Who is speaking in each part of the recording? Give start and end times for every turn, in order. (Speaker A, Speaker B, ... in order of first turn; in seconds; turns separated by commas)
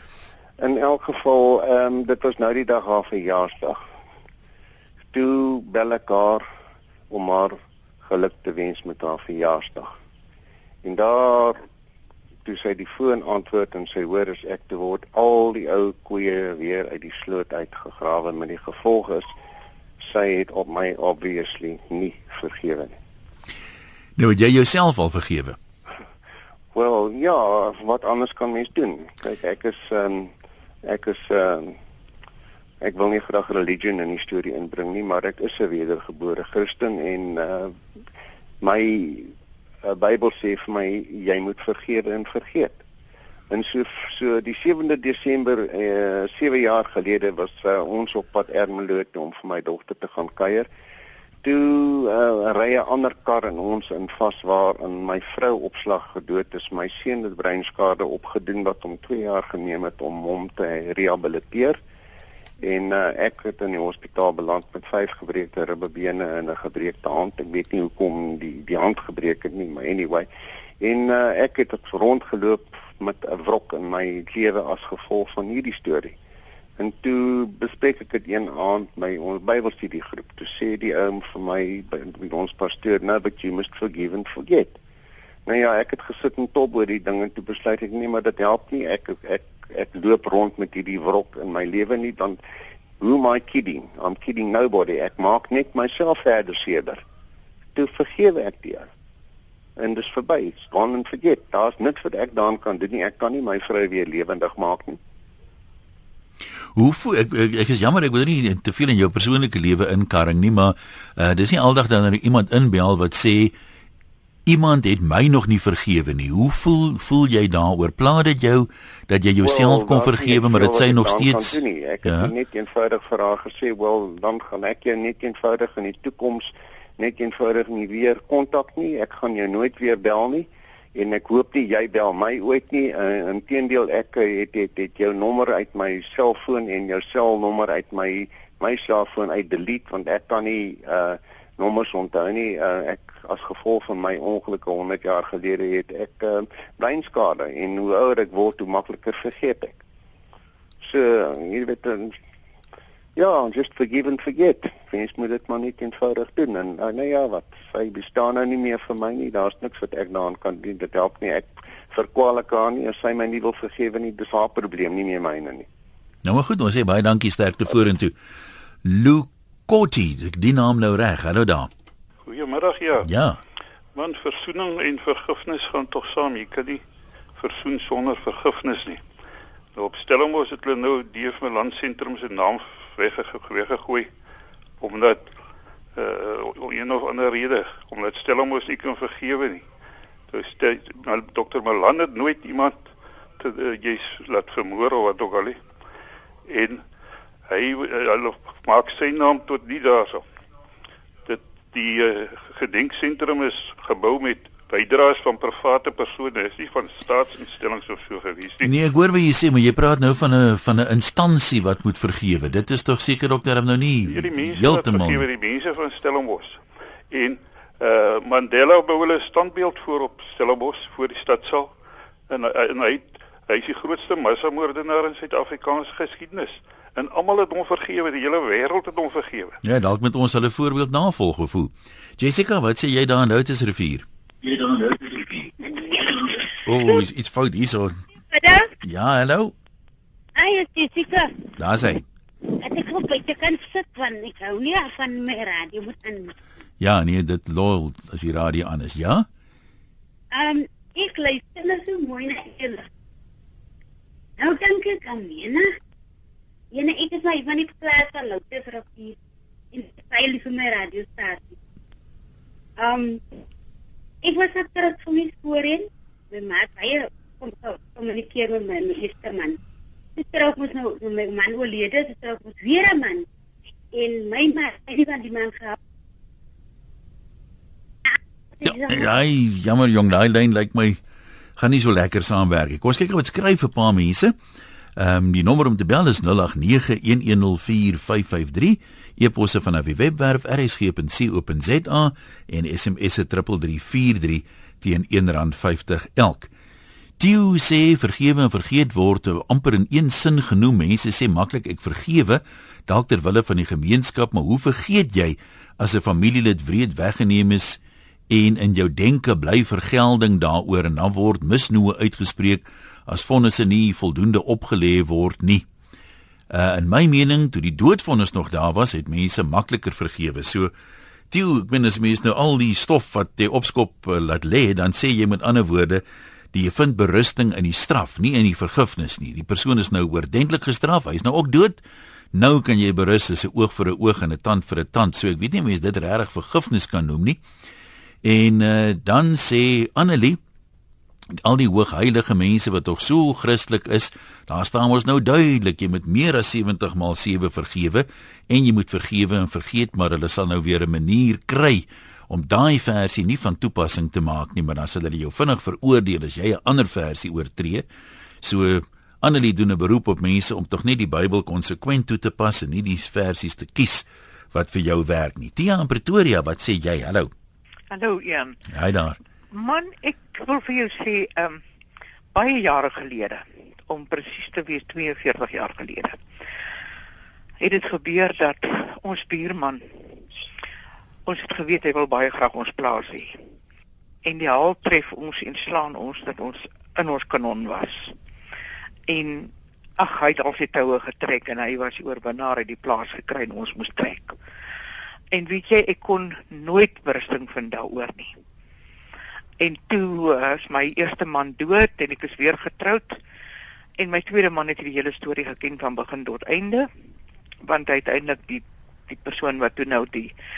Speaker A: 0.6-3.8, Speaker A: 5.1-6.5, Speaker A: 7.1-9.9, Speaker A: 10.8-11.6, Speaker A: 12.4-19.3, Speaker A: 20.0-22.9, Speaker B: 24.2-25.6, Speaker A: 26.7-30.3, Speaker A: 30.9-31.8, Speaker A: 32.8-37.8, Speaker A: 38.6-39.3, Speaker A: 39.8-42.8, Speaker A: 43.5-50.7, Speaker A: 51.4-61.8, Speaker A: 62.6-70.3, Speaker A: 70.8-76.2, Speaker A: 76.8-84.8, Speaker A: 85.5-92.4, Speaker A: 93.0-97.0, Speaker A: 97.8-98.9, Speaker A: 99.8-105.0, Speaker B: 106.8-113.5, Speaker B: 114.5-122.3, Speaker A: 119.4-149.8, Speaker A: 150.8-152.2, Speaker A: 153.2-165.7, Speaker B: 166.2-168.2, Speaker B: 168.8-171.7, Speaker C: 172.3-173.1, Speaker B: 173.0-173.4, Speaker C: 173.9-176.8, Speaker C: 177.4-179.0, Speaker C: 179.8-184.1, Speaker C: 184.8-185.2, Speaker C: 186.0-189.6, Speaker C: 190.3-192.8, Speaker C: 193.4-195.6, Speaker C: 196.5-196.8, Speaker C: 197.5-200.2, Speaker C: 201.3-208.7, Speaker B: 208.6-215.3, Speaker C: 214.1-221.7, Speaker C: 222.3-229.6, Speaker B: 229.6-235.4, Speaker D: 235.7-236.2, Speaker B: 236.7-238.0, Speaker D: 236.8-237.0, Speaker D: 238.3-238.7, Speaker B: 238.8-239.5, Speaker D: 240.4-241.5, Speaker B: 241.6-242.0, Speaker D: 242.5-246.3, Speaker B: 246.8-249.3, Speaker D: 250.3-252.9, Speaker D: 254.4-255.7, Speaker D: 256.7-259.2, Speaker D: 259.7-261.6, Speaker D: 262.8-263.2, Speaker D: 264.2-269.6, Speaker D: 270.2-273.3, Speaker D: 273.9-275.8, Speaker D: 278.1-279.1, Speaker B: 278.6-281.0, Speaker B: 281.6-284.3, Speaker B: 285.0-296.5, Speaker B: 297.2-315.7, Speaker B: 316.5-320.7, Speaker B: 321.3-331.8, Speaker B: 332.3-337.4, Speaker B: 338.2-340.4, Speaker B: 341.4-357.9, Speaker B: 358.4-367.3, Speaker E: 367.9-368.6, Speaker B: 368.7-369.2, Speaker E: 369.5-371.6, Speaker E: 372.3-376.2, Speaker E: 377.6-379.8, Speaker E: 381.3-383.4, Speaker E: 384.2-388.1, Speaker E: 389.1-394.4, Speaker E: 395.3-398.3, Speaker E: 399.6-403.2, Speaker E: 404.0-406.9, Speaker E: 407.6-410.3